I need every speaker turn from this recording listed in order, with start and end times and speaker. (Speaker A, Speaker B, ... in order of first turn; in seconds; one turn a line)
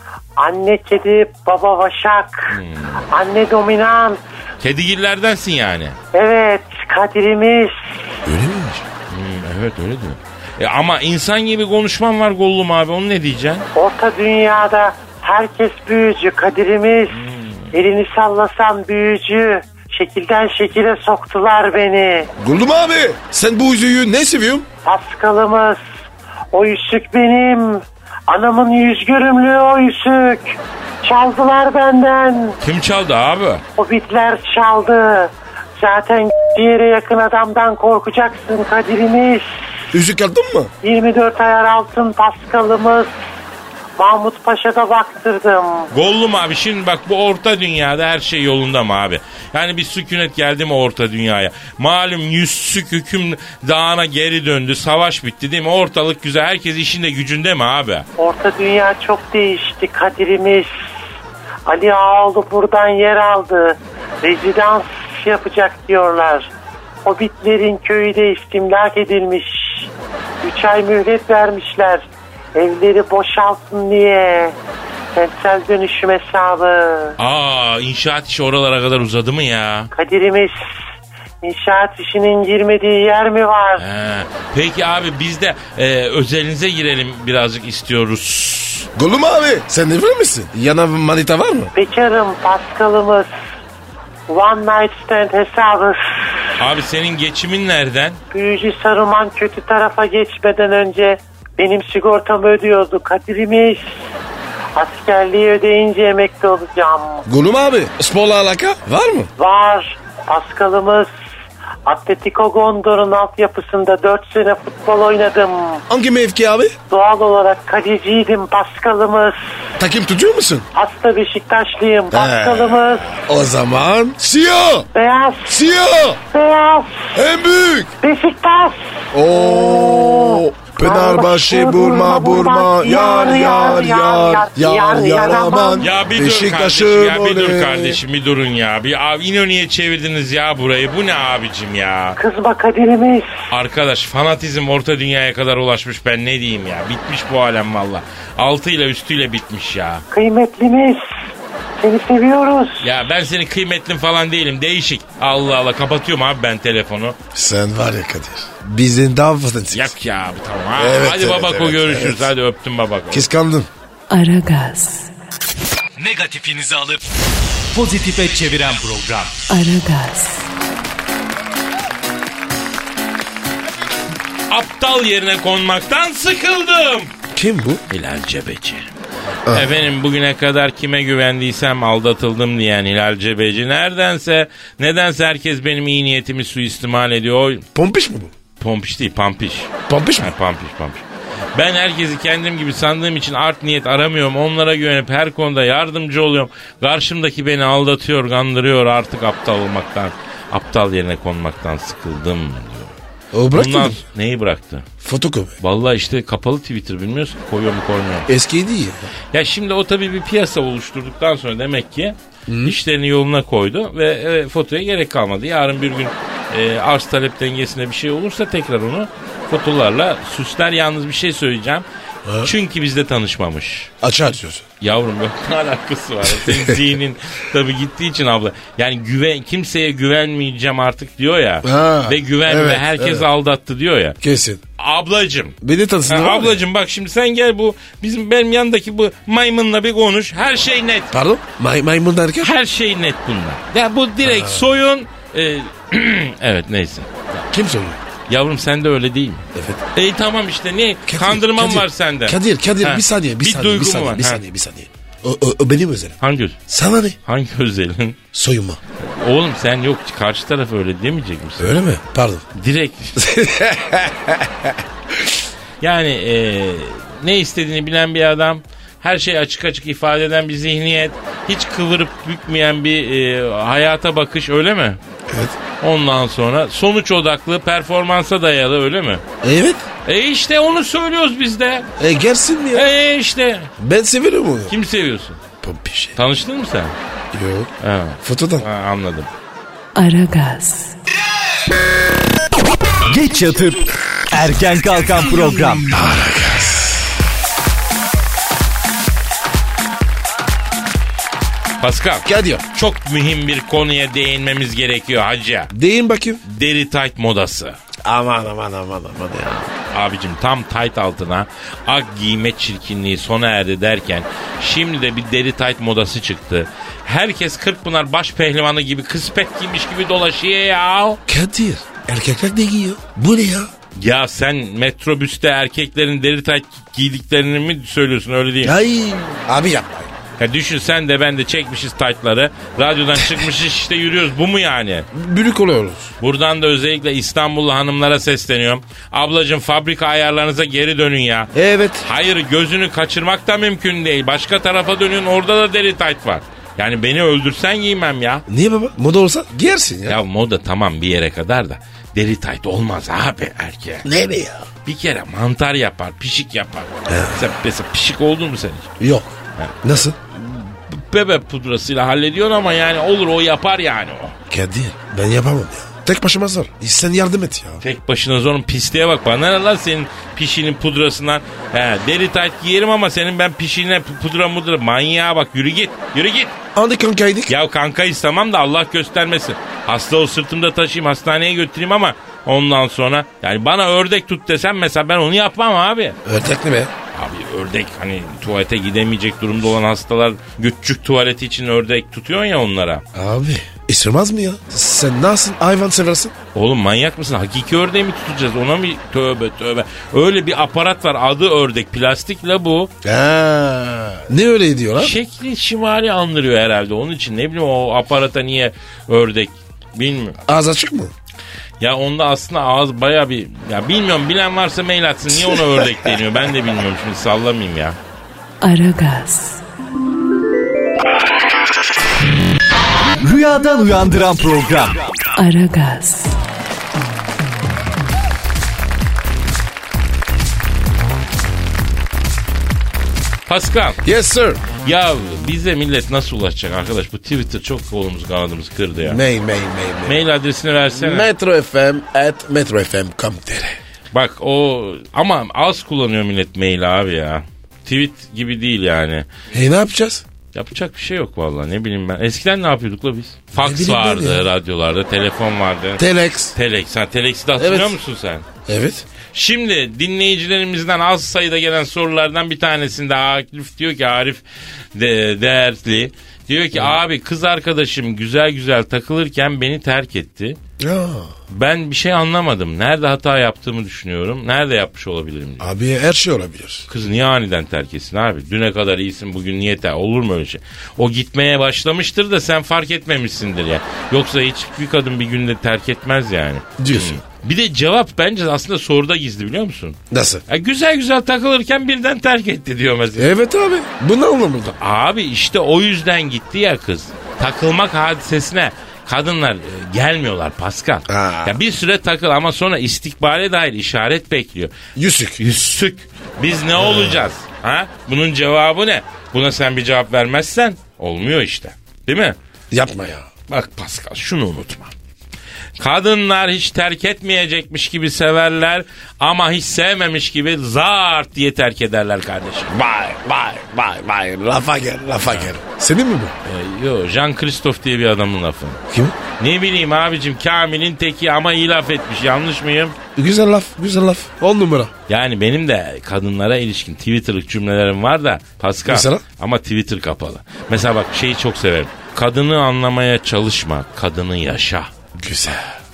Speaker A: 0.4-2.6
Speaker B: 2.5-3.1
Speaker A: 3.1-4.2
Speaker B: 4.6-6.0
Speaker A: 6.1-7.8
Speaker C: 8.3-8.8
Speaker B: 9.1-13.7
Speaker A: 13.8-17.2
Speaker B: 17.1-17.7
Speaker A: 17.7-22.3
Speaker C: 22.4-24.7
Speaker A: 24.9-25.8
Speaker A: 26.5-32.6
Speaker B: 32.6-33.6
Speaker A: 33.8-39.5
Speaker C: 39.9-40.7
Speaker A: 40.8-43.1
Speaker A: 44.0-45.9
Speaker B: 45.9-58.1
Speaker A: 58.2-60.7
Speaker A: 61.7-66.5
Speaker A: 67.0-69.9
Speaker A: 70.4-74.6
Speaker A: 75.1-77.2
Speaker B: 77.2-79.9
Speaker A: 79.9-80.7
Speaker A: 81.4-83.8
Speaker B: 83.8-88.9
Speaker C: 89.0-91.7
Speaker A: 91.8-93.3
Speaker A: 94.3-96.0
Speaker B: 96.6-98.2
Speaker A: 98.3-103.8
Speaker A: 104.8-107.3
Speaker C: 107.3-109.3
Speaker A: 109.4-111.1
Speaker A: 111.9-115.8
Speaker C: 115.9-116.8
Speaker A: 116.9-119.4
Speaker C: 119.8-120.7
Speaker A: 120.8-123.1
Speaker C: 122.1-124.9
Speaker A: 124.9-125.6
Speaker C: 125.5-126.2
Speaker A: 126.3-127.1
Speaker C: 127.1-127.9
Speaker A: 128.0-135.9
Speaker C: 129.1-138.0
Speaker B: 135.8-142.2
Speaker A: 142.2-143.3
Speaker B: 143.5-150.1
Speaker A: 150.1-151.1
Speaker A: 151.8-152.8
Speaker B: 152.8-157.2
Speaker C: 157.3-159.9
Speaker B: 159.7-163.3
Speaker C: 160.8-162.3
Speaker C: 163.1-163.7
Speaker D: 164.1-165.1
Speaker E: 166.0-167.0
Speaker E: 167.8-169.3
Speaker D: 169.5-170.5
Speaker B: 174.5-177.1
Speaker C: 177.3-177.8
Speaker B: 177.9-178.9
Speaker B: 179.5-187.6
Speaker C: 187.8-188.3
Speaker B: 188.6-191.0
Speaker C: 189.9-190.3
Speaker B: 191.6-202.9
Speaker C: 203.3-204.0
Speaker B: 203.5-204.9
Speaker C: 205.0-205.6
Speaker B: 205.6-208.3
Speaker C: 208.3-209.1
Speaker B: 209.3-221.8
Speaker C: 212.5-212.8
Speaker C: 222.3-222.5
Speaker B: 222.4-223.9
Speaker C: 224.0-224.7
Speaker B: 224.8-234.2
Speaker C: 226.4-226.8
Speaker C: 231.6-233.3
Speaker C: 234.2-234.6
Speaker B: 234.8-235.6
Speaker C: 235.6-236.6
Speaker B: 236.1-241.1
Speaker C: 241.1-242.5
Speaker B: 242.4-247.4
Speaker C: 244.2-244.6
Speaker C: 247.5-248.0
Speaker B: 248.3-254.4
Speaker C: 249.6-249.8
Speaker C: 251.1-256.2
Speaker B: 256.2-256.6
Speaker C: 256.7-257.2
Speaker B: 257.3-258.2
Speaker C: 258.3-258.8
Speaker B: 259.0-261.8
Speaker C: 261.6-262.4
Speaker B: 262.6-263.2
Speaker C: 263.2-264.8
Speaker B: 265.8-275.0
Speaker C: 275.3-275.6
Speaker B: 275.8-279.2
Speaker C: 279.4-279.9
Speaker B: 280.1-281.9
Speaker C: 282.0-282.9
Speaker B: 282.7-283.7
Speaker C: 283.8-284.8
Speaker B: 284.7-285.4
Speaker C: 285.6-286.2
Speaker B: 286.2-286.9
Speaker C: 287.3-288.7
Speaker B: 287.8-289.3
Speaker D: 289.9-290.9
Speaker E: 293.1-295.9
Speaker C: 295.9-297.1
Speaker B: 301.8-305.7
Speaker C: 302.2-302.6
Speaker C: 305.7-306.4
Speaker B: 306.5-307.8
Speaker C: 308.0-309.7
Speaker B: 309.9-321.2
Speaker C: 321.3-323.7
Speaker B: 324.0-328.8
Speaker C: 328.6-330.1
Speaker B: 330.4-335.1
Speaker C: 335.1-336.1
Speaker B: 336.2-341.5
Speaker C: 341.5-342.1
Speaker B: 342.0-348.4
Speaker C: 348.5-350.2
Speaker B: 350.1-354.1
Speaker C: 354.0-354.7
Speaker B: 354.9-358.9
Speaker C: 357.1-357.5
Speaker C: 359.0-360.2
Speaker B: 360.3-364.4
Speaker C: 364.5-367.8
Speaker B: 367.8-376.6
Speaker C: 376.8-377.6
Speaker B: 377.5-386.2
Speaker C: 386.2-386.9
Speaker B: 387.1-393.0
Speaker C: 393.1-396.3
Speaker B: 396.6-402.9
Speaker C: 403.0-405.2
Speaker B: 405.0-410.4
Speaker C: 410.5-411.1
Speaker B: 411.8-418.0
Speaker C: 415.3-416.2
Speaker D: 418.6-419.6
Speaker E: 423.2-425.1
Speaker D: 425.4-426.4
Speaker B: 433.5-434.0
Speaker C: 434.0-434.7
Speaker B: 434.8-439.2
Speaker C: 439.0-440.2
Speaker B: 440.1-441.3
Speaker C: 440.9-443.8
Speaker B: 444.1-449.3
Speaker C: 449.5-450.2
Speaker B: 450.5-458.5
Speaker C: 453.6-454.5
Speaker C: 456.0-456.6
Speaker C: 457.6-458.0
Speaker C: 458.7-459.1
Speaker B: 459.3-464.4
Speaker B: 464.9-470.6
Speaker C: 466.7-467.0
Speaker C: 470.8-471.3
Speaker B: 471.5-475.6
Speaker C: 475.6-476.9
Speaker B: 476.9-493.3
Speaker C: 486.8-487.2
Speaker C: 490.1-490.4
Speaker C: 493.2-494.8
Speaker B: 494.8-504.7
Speaker C: 501.1-501.6
Speaker C: 505.0-505.4
Speaker B: 505.4-512.4
Speaker C: 506.8-507.2
Speaker C: 512.7-513.3
Speaker B: 513.5-514.9
Speaker B: 515.8-522.7
Speaker C: 522.7-526.4
Speaker B: 526.5-528.8
Speaker C: 528.9-529.2
Speaker B: 529.4-533.0
Speaker C: 533.2-534.9
Speaker B: 535.1-544.9
Speaker C: 538.9-539.2
Speaker C: 545.2-545.8